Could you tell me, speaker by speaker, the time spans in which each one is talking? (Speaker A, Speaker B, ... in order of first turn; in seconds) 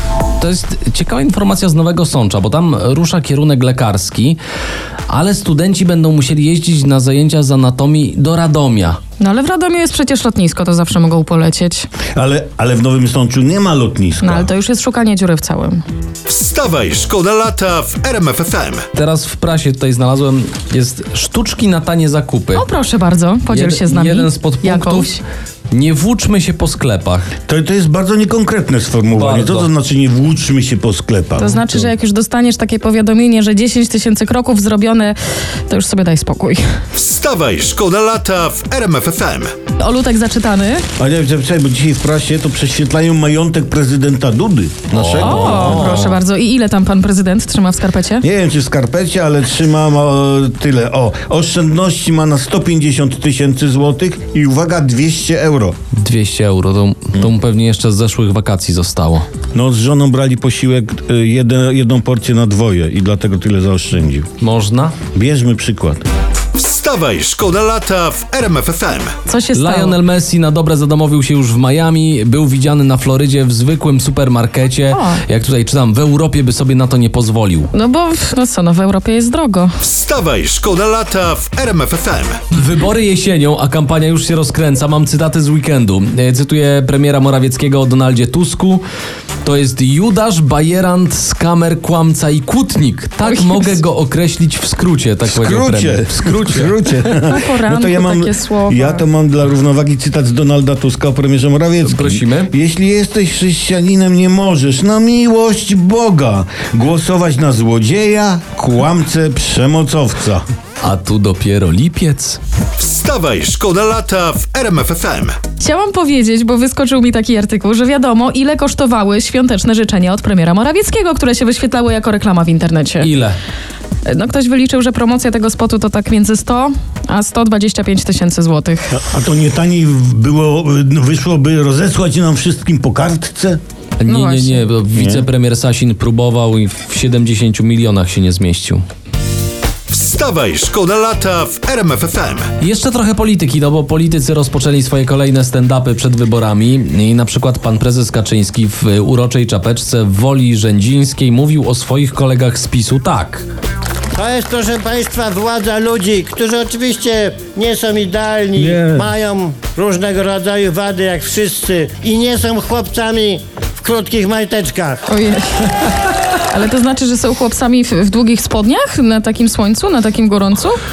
Speaker A: 0.4-4.4, 5.1-9.0, 18.9-22.6, 23.5-27.3, 29.1-29.7, 31.4-31.9, 44.9-46.2, 56.0-59.3, 64.4-65.0, 69.5-77.7, 82.5-88.8, 89.4-97.1, 101.8-102.5, 110.8-112.4, 123.0-123.3, 134.0-138.8, 142.6-153.4
Speaker B: 9.2-11.9, 14.2-15.8, 22.5-25.2, 31.4-36.6, 39.8-40.8, 45.2-48.2, 69.2-70.0, 74.9-75.2, 77.7-79.8, 93.2-93.7, 97.3-99.0, 115.6-123.1, 124.0-129.0, 134.1-134.7, 165.1-165.9, 166.5-170.8
Speaker C: 12.1-14.5, 27.4-31.5, 41.0-46.0, 48.2-55.8, 59.5-64.3, 65.1-66.0, 95.2-110.4, 128.9-133.6, 134.9-135.2, 158.6-159.1
Speaker D: 16.3-18.9, 36.9-39.5, 66.5-69.1, 79.8-82.4, 112.8-115.4, 139.9-142.5
Speaker E: 154.2-165.0